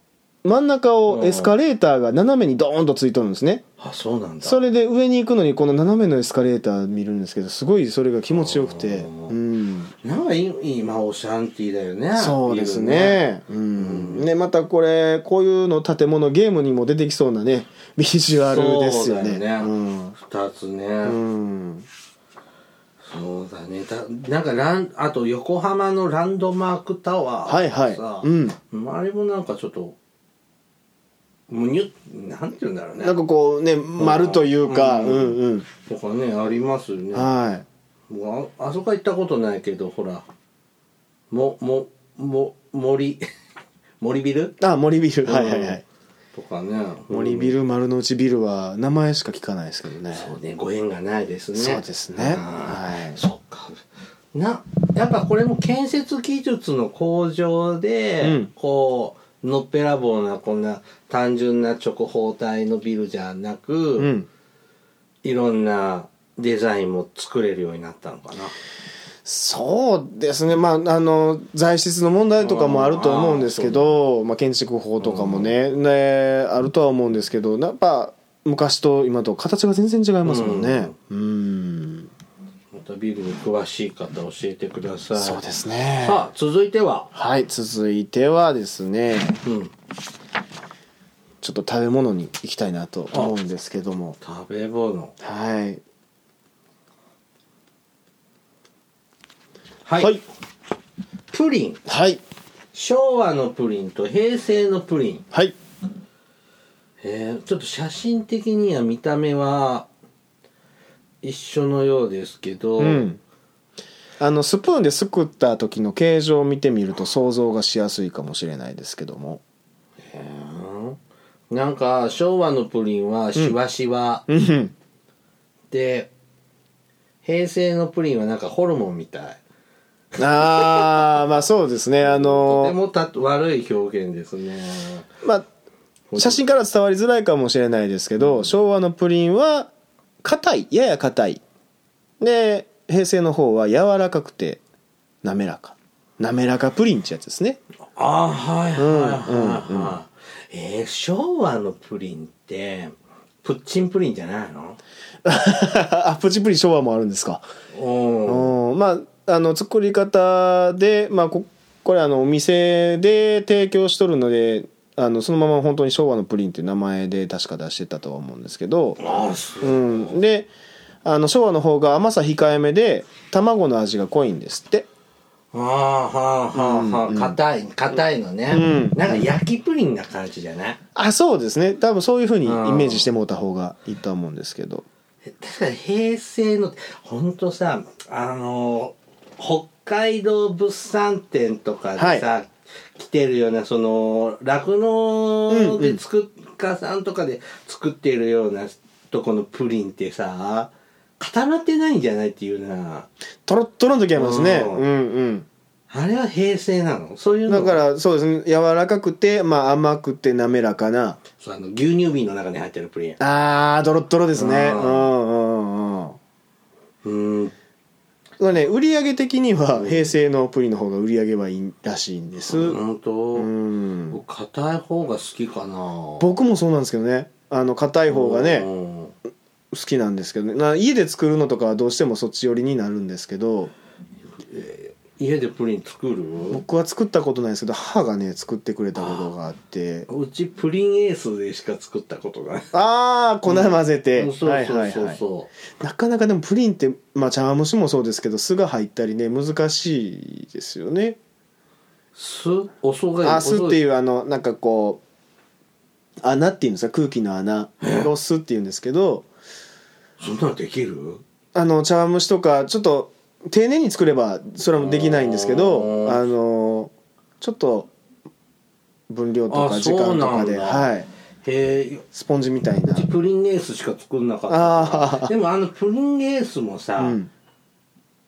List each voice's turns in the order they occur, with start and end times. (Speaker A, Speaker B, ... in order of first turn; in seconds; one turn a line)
Speaker A: 0.4-3.6
Speaker B: 1.1-1.6
Speaker B: 3.8-4.6
Speaker A: 4.4-9.9
Speaker B: 8.3-9.4
Speaker B: 10.0-13.3
Speaker A: 12.2-20.1
Speaker B: 13.8-14.3
Speaker B: 18.4-21.2
Speaker A: 21.0-21.9
Speaker B: 23.1-30.0
Speaker A: 27.5-28.6
Speaker B: 31.5-33.2
Speaker A: 33.0-35.7
Speaker B: 34.0-37.3
Speaker A: 37.1-37.7
Speaker B: 38.1-40.3
Speaker B: 41.3-43.2
Speaker B: 44.0-44.5
Speaker A: 44.6-45.8
Speaker B: 45.2-45.8
Speaker B: 46.3-47.5
Speaker A: 47.1-50.3
Speaker B: 50.1-53.8
Speaker A: 51.6-53.2
Speaker B: 54.3-64.1
Speaker A: 58.2-58.5
Speaker A: 64.0-64.3
Speaker B: 65.2-68.6
Speaker A: 69.2-82.1
Speaker B: 72.4-73.9
Speaker B: 75.0-75.5
Speaker B: 80.2-81.0
Speaker B: 82.7-85.4
Speaker A: 85.2-86.2
Speaker B: 86.0-87.1
Speaker A: 87.1-89.4
Speaker B: 89.4-89.7
Speaker A: 91.4-94.2
Speaker B: 94.2-95.2
Speaker A: 95.2-95.8
Speaker B: 99.8-100.2
Speaker B: 101.3-101.8
Speaker A: 101.9-102.2
Speaker B: 102.7-105.2
Speaker B: 107.0-109.9
Speaker B: 111.2-113.1
Speaker A: 112.8-113.2
Speaker A: 114.2-119.4
Speaker B: 120.0-121.0
Speaker B: 121.5-124.2
Speaker A: 124.3-124.7
Speaker B: 125.7-126.1
Speaker B: 127.2-129.4
Speaker B: 130.2-131.2
Speaker A: 130.2-132.8
Speaker B: 132.0-135.1
Speaker B: 136.1-136.4
Speaker A: 136.2-139.7
Speaker B: 138.2-138.5
Speaker A: 140.2-141.4
Speaker A: 142.2-144.6
Speaker A: 145.2-147.6
Speaker B: 148.0-154.8
Speaker A: 148.8-150.0
Speaker A: 155.2-157.4
Speaker B: 157.7-158.5
Speaker A: 158.3-169.0
Speaker B: 169.0-170.2
Speaker A: 169.6-170.5
Speaker A: 171.0-174.9
Speaker B: 175.5-180.8
Speaker A: 176.5-177.4
Speaker A: 178.5-179.3
Speaker A: 180.9-184.8
Speaker B: 182.4-183.1
Speaker B: 185.3-203.1
Speaker A: 192.0-192.2
Speaker A: 195.5-196.0
Speaker A: 203.5-205.5
Speaker B: 204.2-204.9
Speaker B: 205.9-207.8
Speaker A: 207.5-211.2
Speaker B: 211.4-213.2
Speaker A: 213.2-216.2
Speaker B: 214.3-215.1
Speaker B: 217.0-217.5
Speaker A: 218.4-222.8
Speaker B: 219.8-220.1
Speaker B: 222.4-223.5
Speaker A: 223.4-224.2
Speaker B: 224.1-226.3
Speaker A: 226.2-228.7
Speaker B: 228.1-229.2
Speaker A: 229.7-233.7
Speaker B: 234.4-236.6
Speaker A: 236.5-240.1
Speaker B: 239.0-239.3
Speaker B: 240.1-242.8
Speaker A: 242.7-245.2
Speaker B: 243.5-245.5
Speaker A: 245.8-251.2
Speaker B: 252.2-253.8
Speaker A: 253.2-255.0
Speaker A: 256.2-259.3
Speaker B: 257.8-258.1
Speaker B: 260.2-261.2
Speaker A: 261.6-267.9
Speaker B: 264.8-266.3
Speaker A: 269.1-271.1
Speaker B: 269.5-270.9
Speaker B: 271.4-272.1
Speaker A: 272.1-273.1
Speaker B: 272.9-277.2
Speaker A: 274.5-275.3
Speaker A: 277.0-277.3